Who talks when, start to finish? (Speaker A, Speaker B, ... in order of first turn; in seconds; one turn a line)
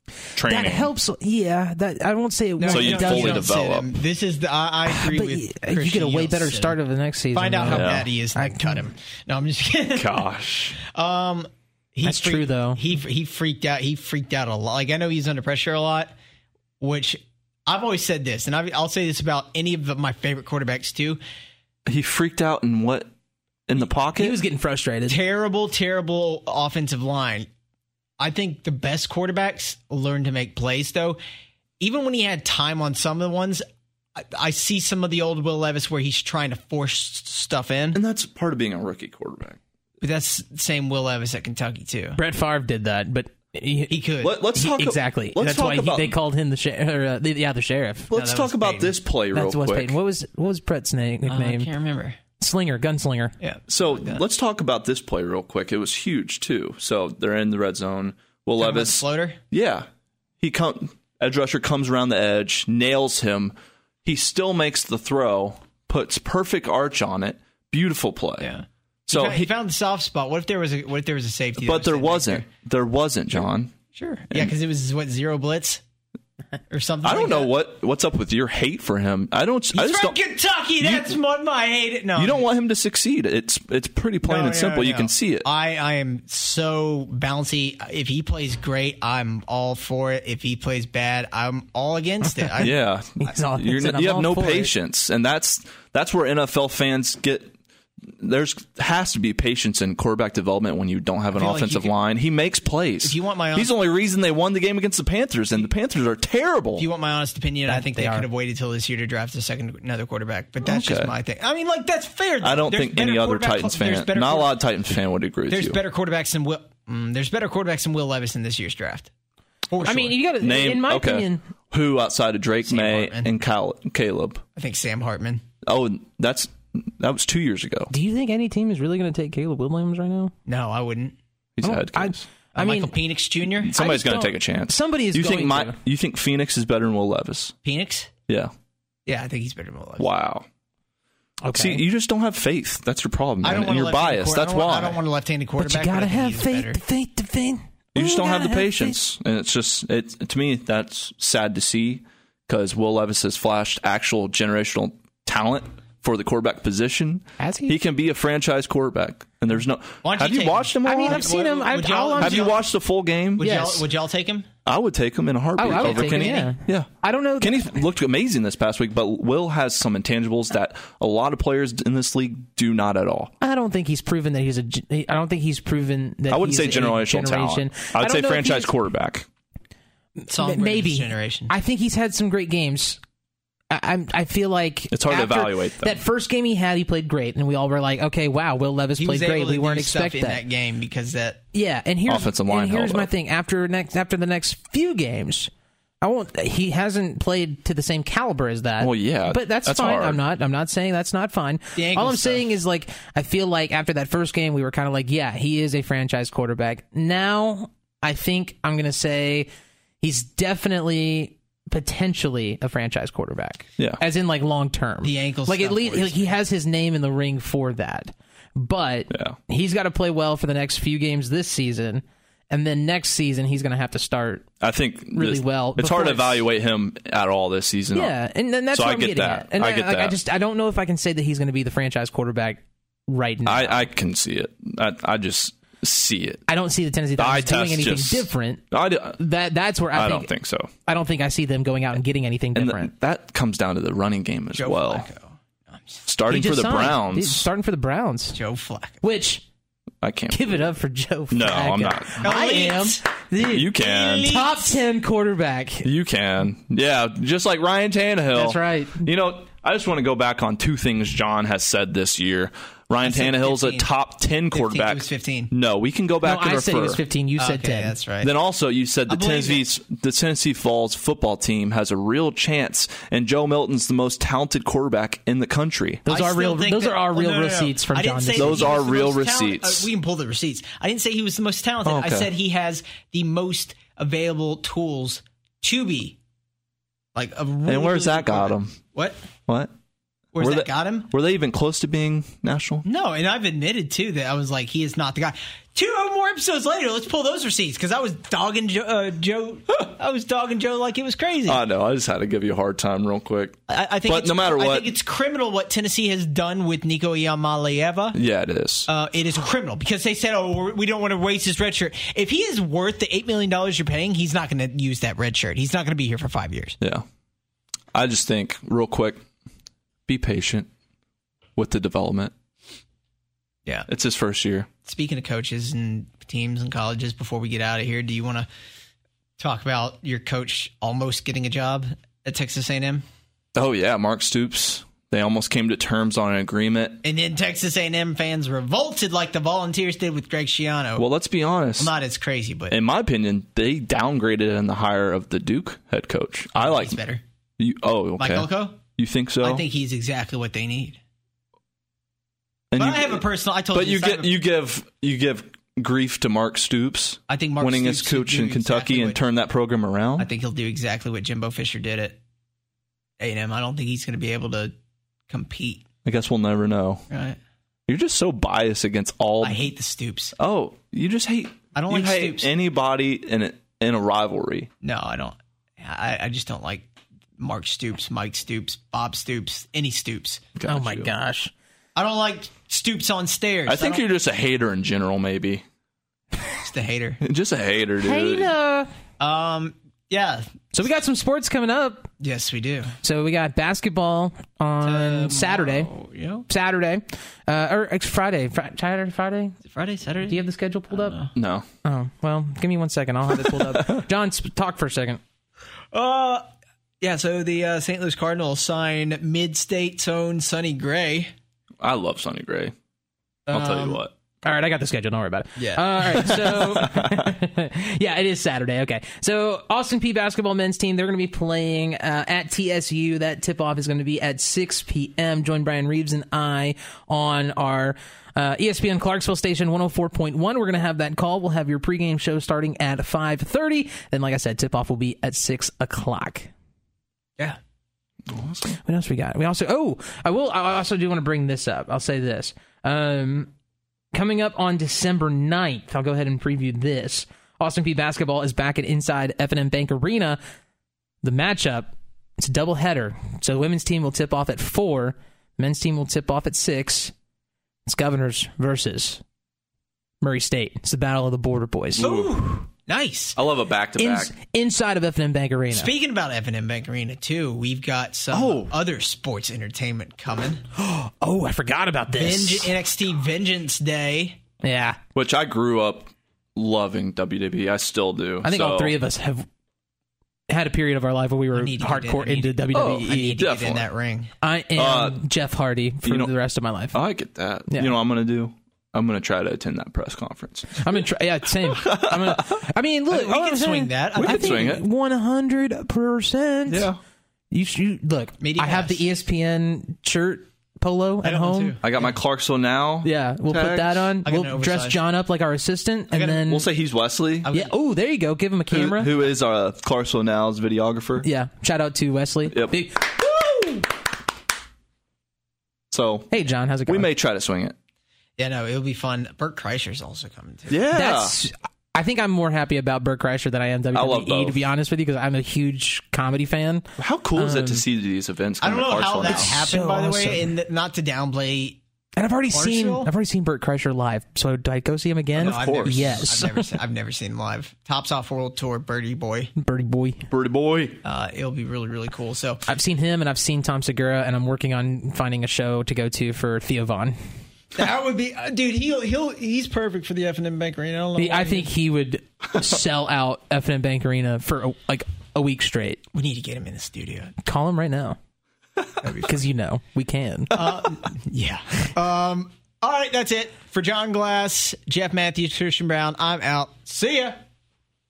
Speaker A: 0.3-0.9
Speaker B: 0.5-3.5
Speaker C: 2.6-6.8
Speaker A: 2.7-3.9
Speaker B: 4.9-8.9
Speaker C: 7.3-10.2
Speaker A: 7.7-8.1
Speaker A: 9.9-10.8
Speaker C: 10.8-16.1
Speaker B: 12.0-12.8
Speaker C: 16.8-21.2
Speaker A: 21.9-23.1
Speaker A: 23.7-24.4
Speaker B: 24.1-25.2
Speaker C: 25.1-27.5
Speaker C: 28.2-31.2
Speaker C: 31.8-33.6
Speaker C: 34.2-38.0
Speaker A: 37.9-39.6
Speaker C: 40.0-42.2
Speaker B: 42.2-44.0
Speaker C: 43.9-44.4
Speaker A: 44.2-46.2
Speaker B: 44.5-48.1
Speaker A: 48.1-50.0
Speaker C: 48.1-49.0
Speaker B: 49.3-51.7
Speaker C: 51.3-52.2
Speaker B: 52.4-53.4
Speaker C: 53.4-54.2
Speaker A: 53.7-59.9
Speaker C: 58.6-59.4
Speaker A: 60.4-63.5
Speaker A: 64.0-68.5
Speaker C: 68.4-72.5
Speaker A: 69.1-69.5
Speaker A: 71.6-73.7
Speaker C: 74.0-75.8
Speaker C: 76.7-77.5
Speaker A: 77.0-80.2
Speaker C: 79.7-82.5
Speaker A: 80.8-81.2
Speaker A: 82.2-85.5
Speaker C: 84.2-92.7
Speaker B: 92.2-94.7
Speaker A: 92.6-106.9
Speaker C: 101.3-101.9
Speaker C: 103.0-103.7
Speaker C: 106.8-114.6
Speaker B: 107.7-108.3
Speaker A: 110.6-111.1
Speaker A: 112.4-115.8
Speaker C: 115.5-119.1
Speaker C: 119.7-120.2
Speaker B: 119.8-121.4
Speaker A: 120.4-124.4
Speaker C: 122.7-123.3
Speaker C: 124.6-125.4
Speaker A: 125.6-127.9
Speaker B: 127.9-130.3
Speaker C: 130.5-131.2
Speaker A: 131.6-132.3
Speaker B: 131.6-132.9
Speaker C: 132.6-133.7
Speaker A: 133.6-137.6
Speaker B: 133.8-135.8
Speaker C: 137.7-138.1
Speaker C: 139.1-140.1
Speaker A: 140.0-140.5
Speaker B: 141.4-141.8
Speaker A: 141.5-145.0
Speaker C: 143.4-146.8
Speaker B: 145.6-149.0
Speaker A: 147.9-161.3
Speaker B: 157.4-157.8
Speaker C: 160.0-162.7
Speaker B: 160.8-162.6
Speaker A: 162.2-163.7
Speaker C: 163.4-164.5
Speaker B: 163.4-163.8
Speaker A: 164.7-166.9
Speaker B: 165.6-167.8
Speaker C: 165.7-166.5
Speaker A: 167.4-173.3
Speaker B: 173.4-178.7
Speaker A: 176.3-179.3
Speaker B: 180.2-183.0
Speaker C: 180.3-181.5
Speaker B: 183.7-190.4
Speaker A: 184.9-186.0
Speaker C: 189.0-191.4
Speaker B: 191.5-195.5
Speaker A: 192.1-193.1
Speaker B: 196.0-209.5
Speaker A: 198.8-200.2
Speaker C: 201.8-202.5
Speaker B: 210.0-224.5
Speaker C: 215.0-216.3
Speaker A: 219.1-219.4
Speaker A: 224.6-228.2
Speaker B: 225.1-226.4
Speaker B: 227.9-233.9
Speaker A: 228.7-230.2
Speaker A: 233.5-236.4
Speaker B: 236.5-240.3
Speaker A: 237.2-239.2
Speaker A: 239.9-240.7
Speaker B: 240.8-242.9
Speaker A: 242.6-245.1
Speaker C: 244.5-246.1
Speaker A: 246.1-247.5
Speaker B: 246.3-248.4
Speaker C: 248.3-249.0
Speaker B: 249.0-249.4
Speaker A: 250.0-250.7
Speaker B: 250.3-255.9
Speaker A: 251.3-252.2
Speaker C: 252.2-253.0
Speaker A: 253.4-254.4
Speaker C: 253.8-254.8
Speaker A: 255.8-267.0
Speaker B: 258.3-259.1
Speaker C: 263.0-263.9
Speaker C: 264.5-265.5
Speaker B: 266.2-268.0
Speaker C: 267.4-268.3
Speaker A: 268.2-276.0
Speaker C: 269.1-269.6
Speaker B: 276.1-278.8
Speaker C: 276.1-286.2
Speaker A: 278.4-279.9
Speaker A: 281.9-282.3
Speaker C: 287.1-289.2
Speaker A: 287.7-288.8
Speaker A: 289.5-289.7
Speaker C: 290.3-291.1
Speaker A: 290.4-292.9
Speaker C: 292.9-301.6
Speaker A: 301.5-304.9
Speaker C: 303.7-308.2
Speaker A: 308.1-308.9
Speaker C: 308.9-316.8
Speaker A: 316.8-317.1
Speaker A: 317.9-319.2
Speaker A: 320.1-320.7
Speaker A: 321.6-322.3
Speaker A: 323.9-324.7
Speaker C: 324.9-328.5
Speaker C: 329.4-333.1
Speaker A: 333.6-337.0
Speaker C: 337.0-341.1
Speaker A: 341.0-341.9
Speaker C: 341.8-342.8
Speaker A: 342.7-347.0
Speaker C: 346.6-347.2
Speaker A: 347.6-349.6
Speaker C: 348.2-348.8
Speaker C: 349.4-351.0
Speaker A: 352.7-360.3
Speaker C: 352.8-354.4
Speaker C: 357.3-359.2
Speaker C: 360.2-362.2
Speaker C: 363.2-364.7
Speaker C: 365.3-365.9
Speaker A: 366.1-367.0
Speaker C: 367.1-367.4
Speaker A: 367.9-369.7
Speaker C: 369.4-370.4
Speaker A: 370.4-374.7
Speaker C: 371.8-372.5
Speaker C: 374.8-376.9
Speaker C: 377.4-380.5
Speaker A: 380.6-381.1
Speaker B: 380.7-381.5
Speaker C: 382.0-384.0
Speaker A: 383.7-385.6
Speaker C: 386.6-387.2
Speaker A: 387.2-388.5
Speaker B: 388.0-388.9
Speaker C: 389.2-390.5
Speaker B: 390.7-392.1
Speaker C: 392.2-393.0
Speaker B: 393.0-395.9
Speaker C: 394.8-396.5
Speaker B: 396.5-399.6
Speaker C: 399.7-401.3
Speaker B: 400.3-401.2
Speaker A: 401.4-401.7
Speaker B: 401.8-405.2
Speaker A: 403.4-404.0
Speaker C: 405.9-406.5
Speaker C: 407.0-411.3
Speaker A: 411.8-412.8
Speaker C: 413.5-414.0
Speaker A: 413.5-414.1
Speaker B: 414.4-436.5
Speaker C: 415.6-416.4
Speaker A: 416.1-417.3
Speaker A: 438.3-438.8
Speaker B: 438.9-443.5
Speaker B: 444.1-450.4
Speaker B: 451.2-457.1
Speaker B: 457.9-459.2
Speaker B: 460.2-462.1
Speaker C: 462.0-463.4
Speaker A: 462.0-462.5
Speaker A: 463.4-464.3
Speaker B: 464.0-465.9
Speaker C: 465.7-470.6
Speaker A: 468.3-468.7
Speaker B: 470.8-472.8
Speaker C: 472.1-474.4
Speaker B: 474.6-475.0
Speaker A: 475.1-479.0
Speaker B: 478.4-479.5
Speaker B: 480.5-483.4
Speaker C: 481.5-484.3
Speaker A: 482.7-483.9
Speaker B: 484.4-487.0
Speaker A: 484.8-485.2
Speaker A: 486.0-486.3
Speaker A: 486.9-491.0
Speaker B: 490.8-496.9
Speaker A: 491.6-492.7
Speaker C: 493.1-494.7
Speaker A: 494.1-494.8
Speaker A: 496.7-497.0
Speaker B: 497.5-501.8
Speaker C: 498.4-499.1
Speaker C: 501.2-502.1
Speaker A: 501.8-504.1
Speaker B: 503.0-506.6
Speaker C: 504.2-505.0
Speaker C: 506.1-506.6
Speaker A: 506.5-507.5
Speaker C: 507.4-507.7
Speaker B: 507.5-509.1
Speaker A: 508.7-511.3
Speaker B: 511.2-513.8
Speaker A: 512.5-512.8
Speaker A: 515.9-516.3
Speaker B: 516.3-517.1
Speaker A: 516.9-517.8
Speaker C: 518.4-520.8
Speaker A: 520.7-521.4
Speaker B: 520.9-527.8
Speaker A: 523.9-524.6
Speaker A: 527.0-529.6
Speaker C: 528.6-531.8
Speaker B: 529.3-530.5
Speaker B: 532.2-536.7
Speaker C: 532.5-533.1
Speaker A: 535.4-536.2
Speaker C: 535.4-539.5
Speaker B: 539.6-540.3
Speaker A: 540.3-541.0
Speaker C: 541.0-542.6
Speaker B: 542.7-547.2
Speaker C: 547.8-551.7
Speaker B: 551.2-556.0
Speaker C: 556.1-557.3
Speaker B: 557.4-558.2
Speaker C: 559.0-559.3
Speaker B: 559.1-560.8
Speaker C: 560.5-567.4